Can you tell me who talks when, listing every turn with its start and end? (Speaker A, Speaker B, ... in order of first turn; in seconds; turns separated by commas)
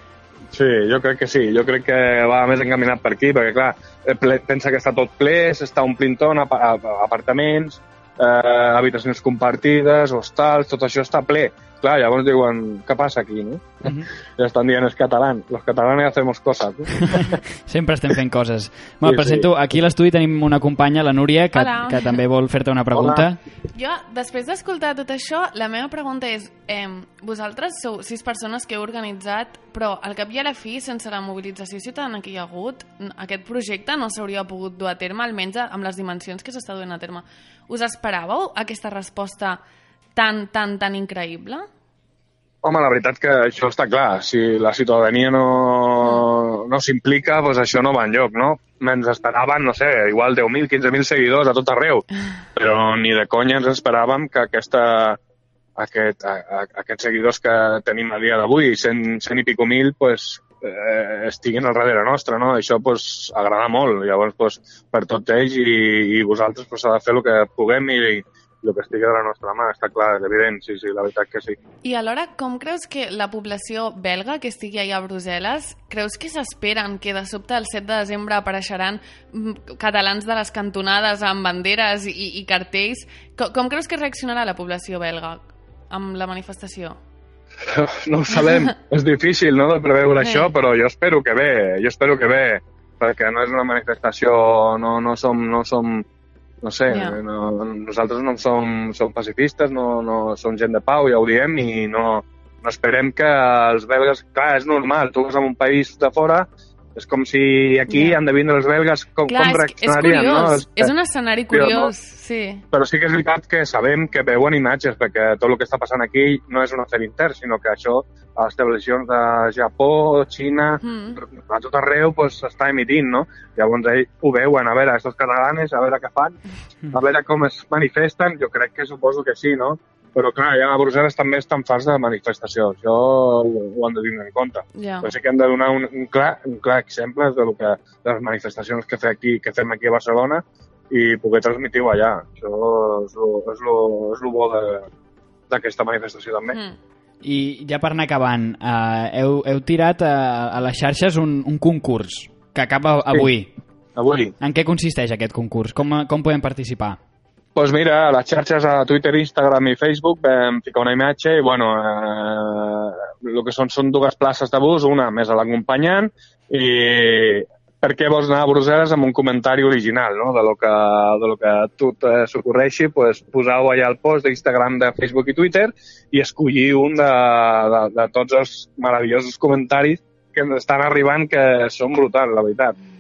Speaker A: 0.5-17.4, Speaker B: 17.0-23.4, Speaker A: 19.0-19.5, Speaker C: 21.6-22.2, Speaker A: 22.9-23.2, Speaker C: 23.7-39.6, Speaker C: 40.1-41.7, Speaker A: 42.6-55.2, Speaker A: 55.8-71.6, Speaker C: 71.8-87.0, Speaker A: 87.7-96.1, Speaker C: 90.2-90.5, Speaker A: 96.6-110.9, Speaker C: 96.9-97.2, Speaker C: 107.9-108.2, Speaker C: 109.3-112.6, Speaker A: 111.5-111.9, Speaker A: 112.7-126.4, Speaker C: 120.8-121.2, Speaker A: 126.9-144.9, Speaker C: 134.8-135.1, Speaker A: 145.5-146.6, Speaker B: 147.2-153.5, Speaker A: 154.0-154.3, Speaker B: 154.4-157.0, Speaker A: 157.6-182.8